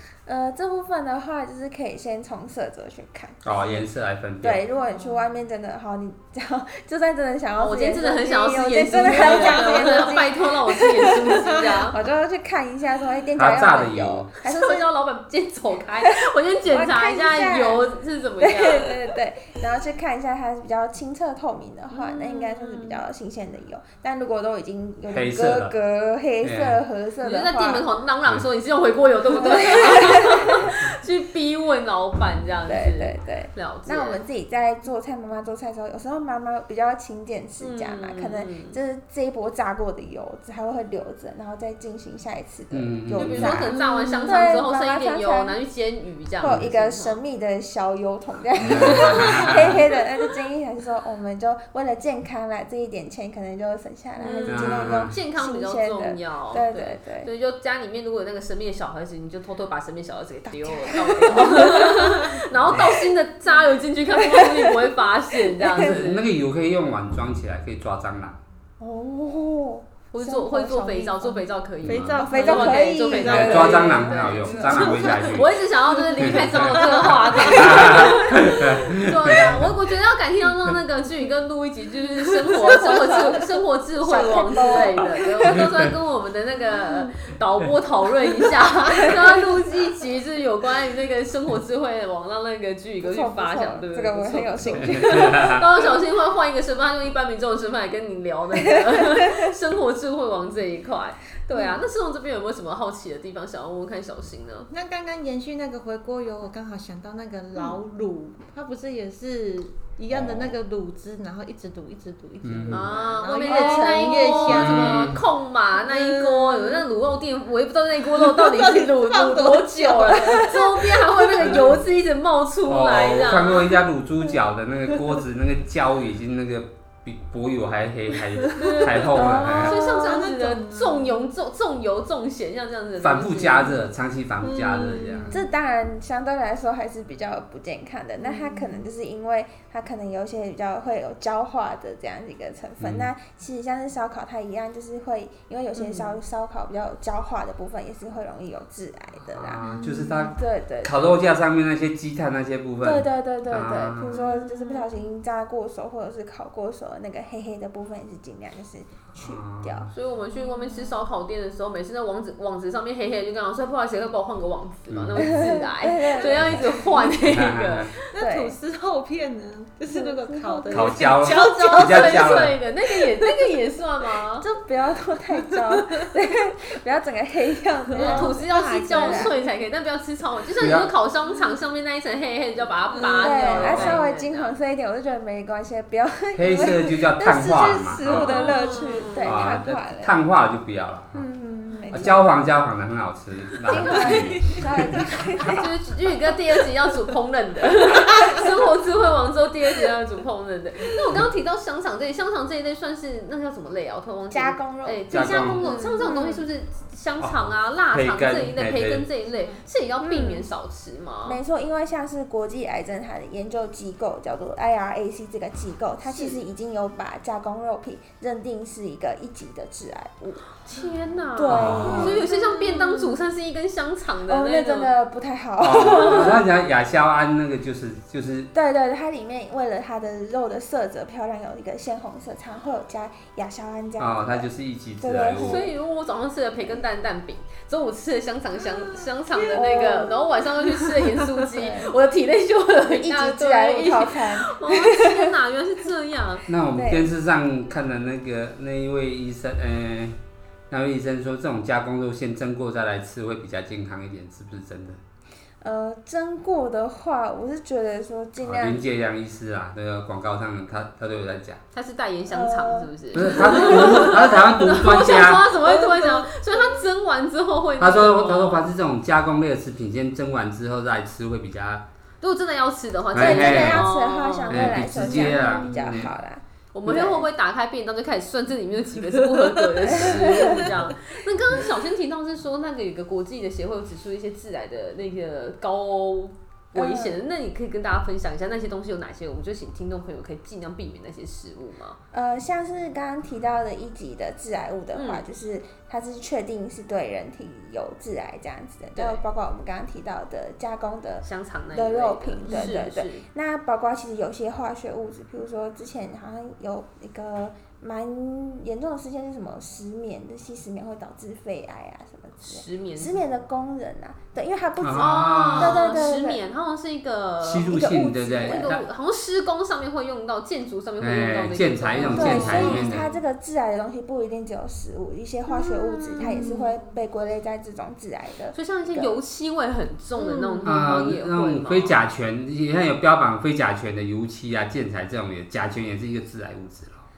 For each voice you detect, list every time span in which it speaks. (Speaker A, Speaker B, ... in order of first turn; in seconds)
Speaker A: 0.2-3.8, 4.4-14.9, 16.0-17.9, 18.4-27.9, 29.3-30.8, 32.7-45.6, 46.4-57.3, 60.5-62.4, 64.1-64.9, 65.6-66.1, 68.8-71.5, 72.2-75.3, 82.5-83.5, 84.0-85.7, 89.0-89.4, 93.0-95.9, 99.1-99.5, 113.4-114.7, 129.1-130.3, 135.3-151.3, 152.8-159.9, 165.2-167.1, 168.2-168.6, 169.9-171.1, 174.4-179.3, 183.1-190.2, 191.1-192.3, 193.7-195.7, 204.3-206.4, 210.0-210.5, 211.2-220.4, 221.3-223.2, 224.3-226.5, 228.5-234.5, 235.0-235.7, 239.5-240.3, 241.4-241.9, 242.8-245.3, 246.7-247.1, 255.6-258.8, 262.3-264.2, 273.1-277.3, 279.9-280.7, 286.7-287.2, 292.1-316.4, 317.6-318.8, 322.0-329.2, 330.3-330.6
Speaker B: 3.4-4.6, 13.3-14.3, 25.1-25.7, 26.4-26.8, 42.7-43.7, 46.4-46.7, 48.6-49.8, 54.5-55.1, 65.7-68.4, 71.8-72.2, 73.2-75.6, 76.2-79.7, 94.7-95.6, 110.1-110.6, 112.4-112.9, 114.4-115.2, 122.7-129.8, 133.0-135.4, 142.8-143.1, 149.3-154.2, 159.2-159.9, 164.9-165.5, 166.4-166.7, 167.2-167.9, 170.7-172.6, 180.6-180.9, 183.5-184.0, 186.3-188.4, 189.2-191.3, 191.9-195.5, 205.1-205.6, 207.2-209.1, 221.5-222.2, 225.6-228.5, 234.0-235.7, 246.5-250.2, 250.7-255.0, 258.4-261.6, 263.1-265.5, 267.8-271.8, 273.1-273.9, 274.5-276.1, 314.8-316.0, 317.4-318.8, 321.0-323.1, 330.6-337.1
Speaker C: 4.8-5.3, 8.9-10.2, 11.0-11.7, 43.9-44.3, 71.8-74.1, 76.0-78.1, 104.7-115.1, 115.8-116.9, 118.1-121.8, 128.5-131.2, 134.4-135.4, 138.2-138.8, 149.6-150.3, 168.1-173.5, 175.4-176.1, 177.9-179.4, 182.9-183.8, 188.3-188.8, 193.7-194.6, 198.1-198.4, 220.8-221.0, 239.3-240.7, 265.7-266.2, 275.0-275.9, 280.3-280.7, 326.2-326.5
Speaker D: 7.6-12.0, 14.4-19.0, 21.9-23.0, 27.2-34.2, 37.6-38.8, 43.1-47.2, 48.8-49.6, 54.2-66.2, 70.1-104.7, 112.7-123.7, 128.6-133.8, 145.8-146.1, 154.1-154.8, 159.9-168.0, 171.2-174.5, 178.0-184.5, 188.1-189.3, 195.6-211.4, 216.1-216.4, 220.6-224.9, 235.3-246.4, 261.7-268.7, 272.2-274.9, 276.7-292.0, 294.9-295.2, 298.9-299.2, 301.2-303.2, 312.4-313.2, 314.9-323.1, 325.6-326.8, 328.5-332.0